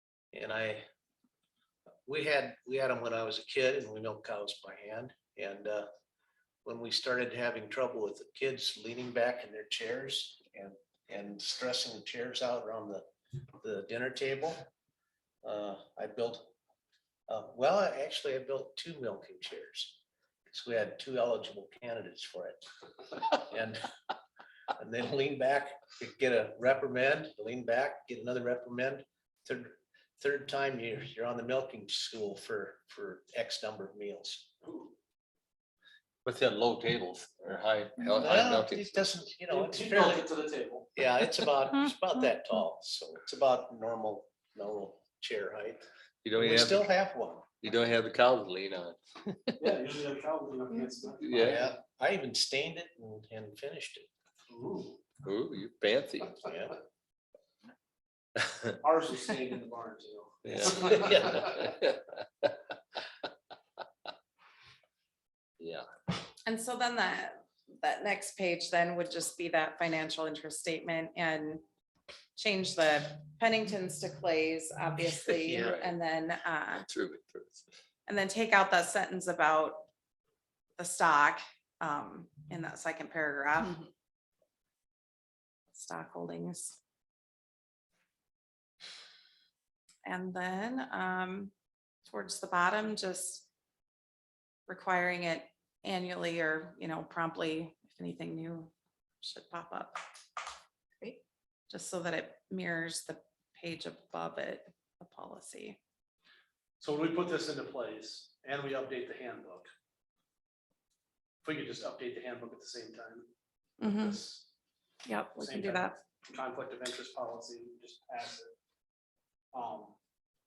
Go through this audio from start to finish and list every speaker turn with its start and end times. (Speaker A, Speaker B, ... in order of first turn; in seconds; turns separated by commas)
Speaker A: 0.3-0.8, Speaker A: 2.1-5.9, Speaker A: 6.6-13.1, Speaker A: 13.6-14.7, Speaker A: 15.4-16.5, Speaker A: 17.3-20.0, Speaker A: 20.5-22.6, Speaker A: 23.3-23.9, Speaker A: 24.8-34.5, Speaker B: 34.6-34.9, Speaker C: 36.2-39.1, Speaker A: 38.1-40.3, Speaker B: 39.5-40.9, Speaker A: 41.0-47.5, Speaker C: 46.2-46.9, Speaker C: 47.6-49.7, Speaker B: 49.6-51.7, Speaker C: 51.2-51.6, Speaker A: 51.4-54.1, Speaker B: 54.5-55.0, Speaker C: 55.2-56.4, Speaker A: 56.4-56.8, Speaker B: 58.8-61.5, Speaker C: 60.5-62.5, Speaker A: 60.9-61.5, Speaker C: 65.6-65.8, Speaker D: 66.5-71.6, Speaker D: 72.3-76.8, Speaker A: 75.4-75.7, Speaker C: 75.5-76.0, Speaker C: 76.7-77.7, Speaker D: 78.1-79.9, Speaker D: 80.8-83.8, Speaker D: 85.7-86.8, Speaker D: 90.0-91.5, Speaker D: 92.0-93.5, Speaker D: 94.7-100.0, Speaker D: 101.7-105.8, Speaker B: 106.8-109.7, Speaker B: 111.4-113.3, Speaker D: 113.8-114.2, Speaker B: 113.8-114.5, Speaker D: 115.0-115.9, Speaker B: 115.4-118.5, Speaker B: 119.5-120.0